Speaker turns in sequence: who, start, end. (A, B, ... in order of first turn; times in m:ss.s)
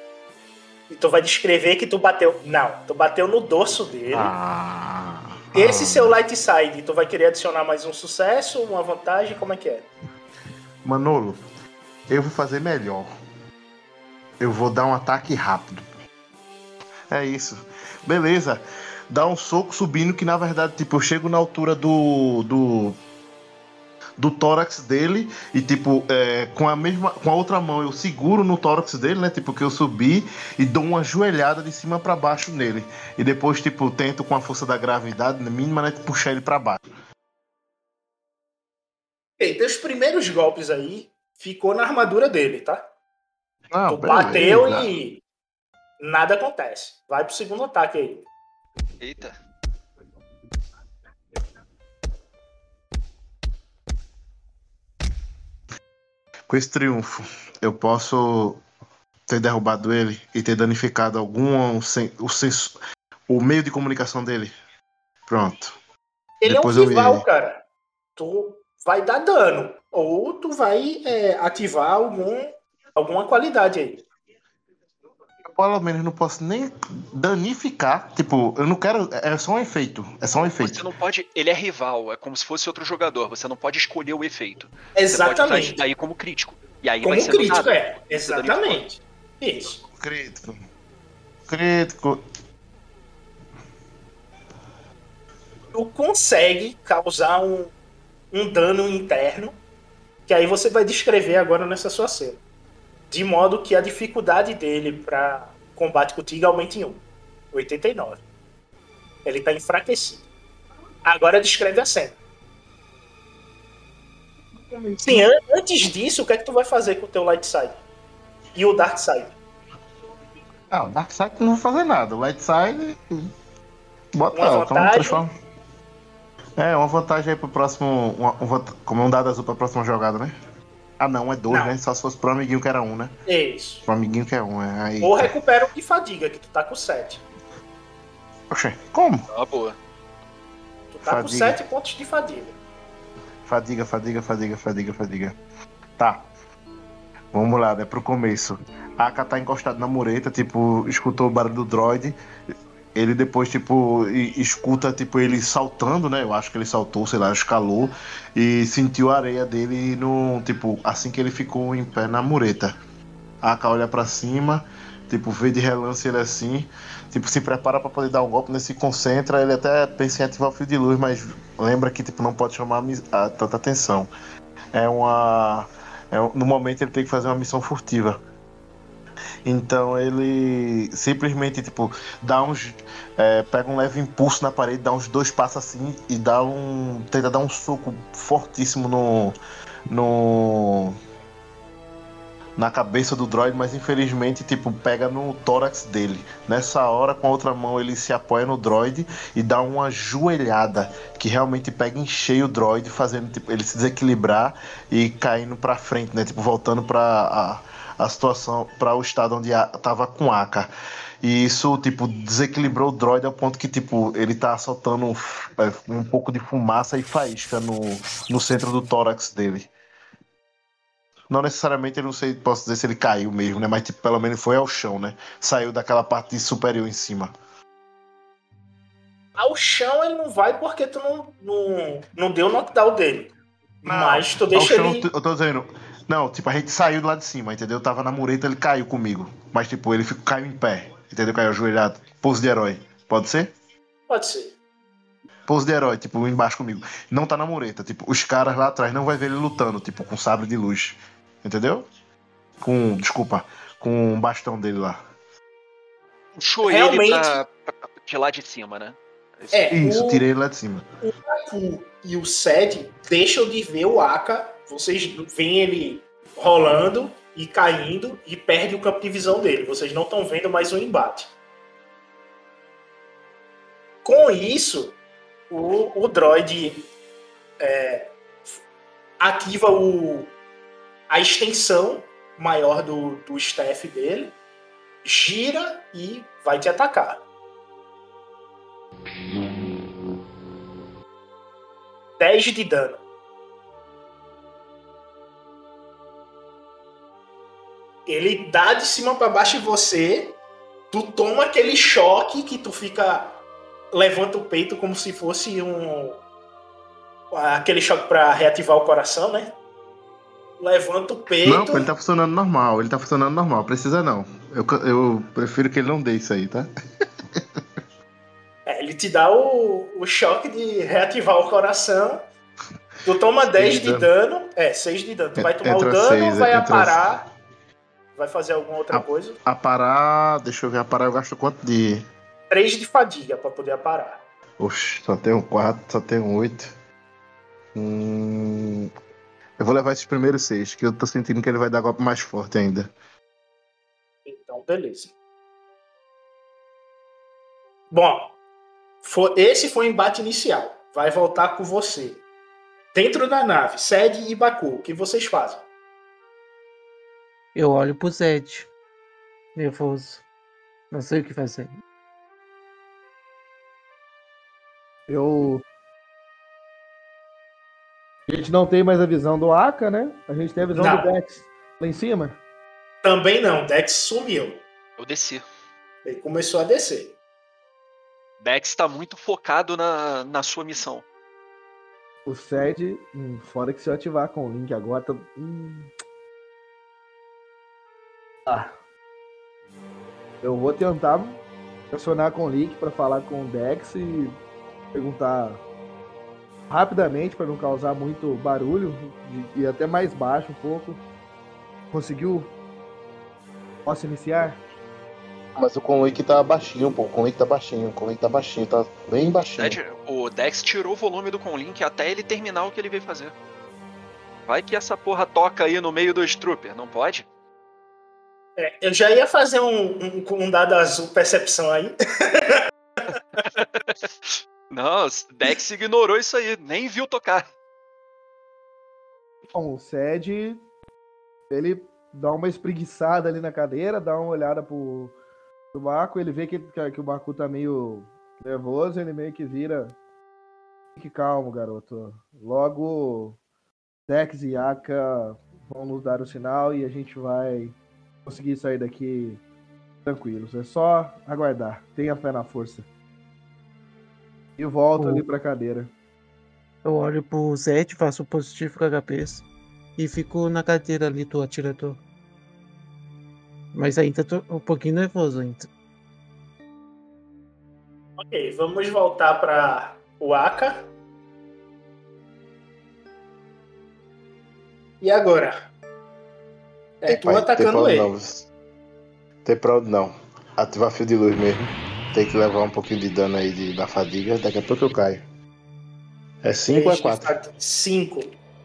0:00.9-0:04.3 A
0:04.1-0:06.2 B
0:05.6-0:09.9 A
0:10.8-0:11.4 B
0:12.1-0:13.1 B
0:14.4-0:15.8 B
0:17.1-0:23.0 B
0:24.2-0:36.8 B
0:39.4-0:42.9 A
0:43.7-0:44.9 B
0:43.9-0:45.2 A
0:46.0-0:48.3 A
0:49.0-0:49.4 C
0:56.5-0:58.6 B
0:59.3-1:02.8 B
1:03.3-1:04.5 B
1:05.3-1:05.7 B
1:06.4-1:07.6 A
1:06.4-1:07.2 B
1:08.2-1:14.0 A
1:15.5-1:20.8 B
1:20.6-1:28.8 C
1:25.0-1:25.8 A
1:27.0-1:29.8 A
1:30.0-1:30.6 B
1:31.5-1:32.2 B
1:35.7-1:37.7 A
1:38.3-1:39.6 A
1:40.3-1:42.4 A
1:43.1-1:48.2 A
1:49.2-1:50.2 A
1:51.0-1:52.2 A
1:54.7-1:55.3 B
1:55.0-1:57.8 A
1:58.6-1:59.3 A
2:00.7-2:03.3 B
2:04.2-2:05.3 B
2:04.4-2:05.2 A
2:06.6-2:10.3 B
2:11.0-2:13.1 B
2:13.3-2:13.8 A
2:13.8-2:15.3 B
2:15.0-2:17.2 A
2:18.5-2:19.3 B
2:19.3-2:19.8 C
2:20.9-2:22.6 A
2:21.0-2:21.6 B
2:23.5-2:25.4 B
2:26.0-2:26.3 B
2:27.3-2:32.2 B
2:33.0-2:42.8 B
2:43.4-2:54.1 B
2:54.7-2:58.2 B
2:59.4-3:09.4 B
3:09.9-3:11.0 B
3:12.6-3:30.7 B
3:31.2-3:39.7 B
3:41.3-3:47.3 B
3:49.4-3:53.3 A
3:53.8-3:55.1 A
3:53.8-4:03.5 B
4:04.1-4:04.6 A
4:05.5-4:11.9 B
4:12.6-4:15.0 B
4:16.4-4:19.7 C
4:16.6-4:17.4 A
4:19.5-4:20.2 A
4:19.7-4:20.9 B
4:21.0-4:31.3 A
4:34.0-4:35.0 A
4:35.5-4:36.9 A
4:37.6-4:38.6 A
4:39.2-4:40.3 A
4:41.1-4:44.3 A
4:45.0-4:47.2 A
4:52.2-4:53.0 A
4:58.1-5:00.4 A
5:00.9-5:03.4 A
5:03.9-5:06.2 A
5:07.3-5:09.6 A
5:10.6-5:11.9 A
5:11.4-5:16.7 B
5:17.3-5:17.6 B
5:18.7-5:22.2 A
5:23.0-5:27.2 A
5:23.5-5:24.1 B
5:25.4-5:27.2 B
5:28.2-5:29.4 A
5:28.9-5:32.0 B
5:32.5-5:34.2 A
5:34.6-5:36.7 B
5:37.8-5:38.9 B
5:39.6-5:42.9 B
5:44.3-5:45.1 A
5:47.9-5:48.3 A
5:49.0-5:52.2 A
5:52.9-5:55.6 A
5:57.6-5:58.7 D
5:59.6-6:00.2 D
6:00.9-6:01.7 D
6:05.1-6:05.6 E
6:08.3-6:12.4 E
6:10.8-6:11.1 A
6:13.0-6:14.6 A
6:15.0-6:15.4 C
6:16.1-6:17.2 A
6:18.4-6:21.0 C
6:22.3-6:25.9 E
6:28.5-6:28.7 E
6:30.4-6:31.4 E
6:31.9-6:34.4 E
6:34.9-6:35.6 E
6:36.7-6:41.0 E
6:41.9-6:42.5 E
6:43.9-6:44.6 E
6:45.6-6:49.8 B
6:49.6-6:53.3 C
6:54.5-6:57.3 C
6:58.6-7:02.6 A
7:03.4-7:07.5 C
7:09.5-7:10.6 E
7:11.5-7:15.2 E
7:15.7-7:20.0 E
7:21.0-7:23.4 E
7:24.1-7:27.8 E
7:28.3-7:29.4 E
7:30.0-7:32.9 E
7:34.6-7:35.9 E
7:35.0-7:35.2 D
7:36.8-7:42.0 D
7:43.7-7:45.7 D
7:48.2-7:50.9 A
7:55.0-7:55.7 A
7:57.0-7:58.1 A
7:57.1-7:58.5 B
7:59.4-8:05.2 B
8:06.4-8:07.3 B
8:06.7-8:08.3 A